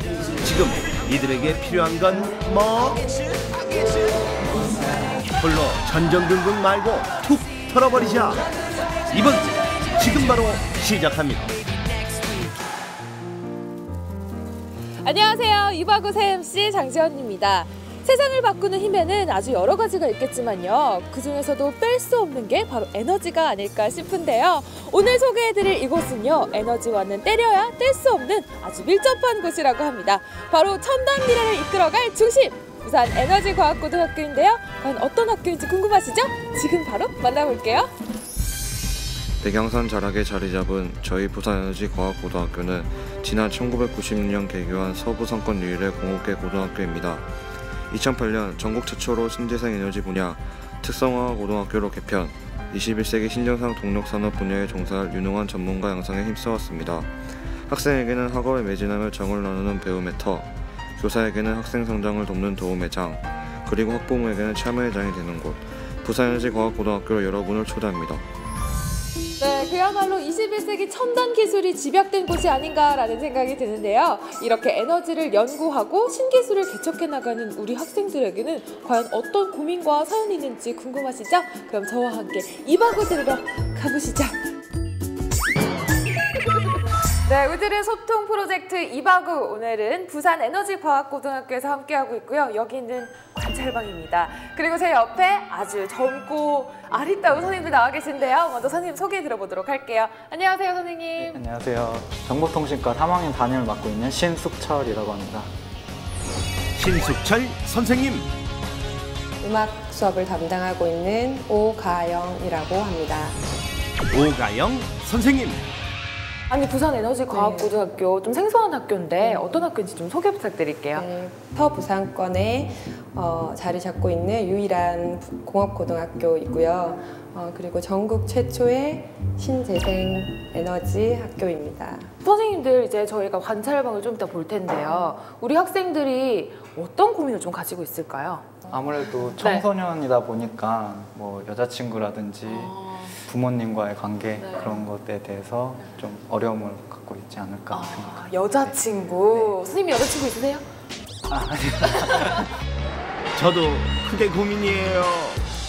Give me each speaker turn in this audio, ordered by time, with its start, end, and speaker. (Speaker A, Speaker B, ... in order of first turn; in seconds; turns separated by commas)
Speaker A: 0.4-3.2, Speaker A: 5.4-8.4, Speaker A: 9.1-11.5, Speaker B: 15.0-37.9, Speaker C: 39.4-47.3, Speaker C: 47.9-68.2, Speaker B: 69.4-84.4, Speaker B: 87.2-101.4, Speaker D: 101.2-105.5, Speaker A: 106.8-108.3, Speaker E: 109.4-113.4, Speaker A: 114.1-115.6, Speaker B: 116.5-121.1, Speaker E: 117.3-117.8, Speaker E: 119.2-119.7, Speaker E: 120.9-132.1, Speaker B: 132.2-138.6, Speaker D: 138.7-149.6, Speaker B: 139.4-139.6, Speaker B: 142.4-143.2, Speaker B: 144.4-144.8, Speaker B: 147.7-150.7, Speaker D: 151.3-152.4, Speaker B: 151.9-152.4, Speaker A: 153.3-155.4